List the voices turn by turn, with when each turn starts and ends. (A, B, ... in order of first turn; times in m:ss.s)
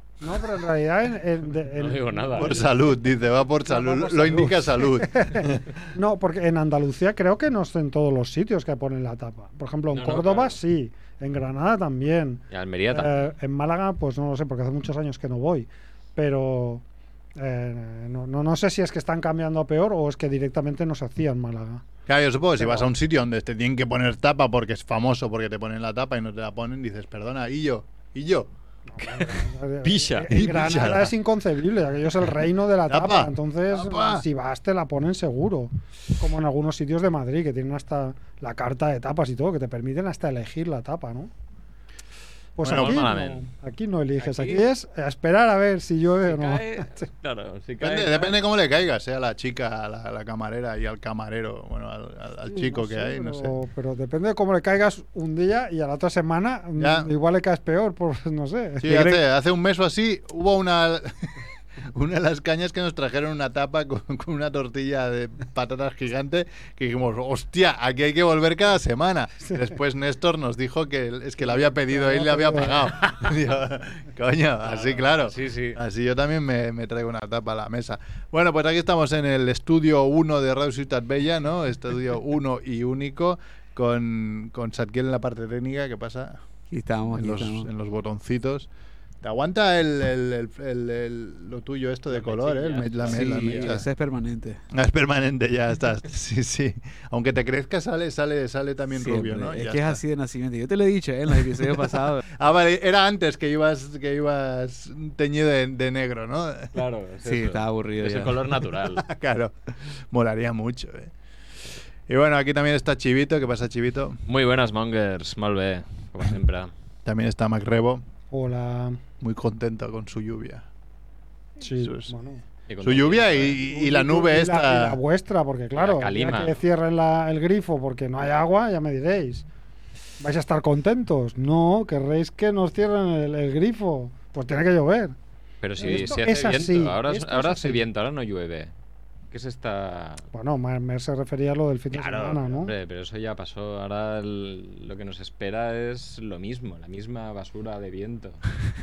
0:00.2-0:02.8 A
0:01.8-0:02.6 B
0:02.3-0:05.8 C
0:03.6-0:16.8 A
0:09.9-0:10.6 B
0:12.5-0:13.1 B
0:17.4-0:21.8 A
0:22.1-0:28.5 C
0:22.6-0:22.9 A
0:29.0-0:41.3 A
0:29.0-0:30.4 B
0:30.3-0:31.1 C
0:32.9-0:34.2 C
0:42.6-0:47.0 A
0:42.6-0:43.1 C
0:42.6-0:43.4 B
0:44.2-0:44.7 B
0:46.3-0:48.4 B
0:47.8-0:53.5 C
0:52.5-0:59.2 A
0:56.8-0:57.1 C
0:58.8-1:01.3 C
1:01.9-1:26.4 C
1:11.4-1:12.8 A
1:14.6-1:15.8 B
1:26.7-1:27.7 D
1:27.1-1:28.7 C
1:29.2-1:33.9 C
1:32.1-1:33.8 B
1:33.1-1:34.6 D
1:34.7-1:40.0 C
1:38.9-1:42.2 D
1:42.4-1:46.7 C
1:46.7-1:49.0 B
1:47.2-1:48.5 D
1:49.0-1:51.1 C
1:52.1-1:54.2 C
1:54.3-1:56.7 B
1:57.0-1:58.0 C
1:58.3-1:59.0 A
1:59.2-2:00.6 C
2:01.6-2:02.4 A
2:01.8-2:02.1 C
2:02.7-2:03.6 B
2:02.8-2:05.0 C
2:03.6-2:09.5 A
2:05.8-2:06.6 B
2:10.2-2:15.2 A
2:15.6-2:18.7 B
2:15.8-2:17.8 A
2:19.3-2:20.2 B
2:20.3-2:22.7 A
2:21.9-2:28.4 B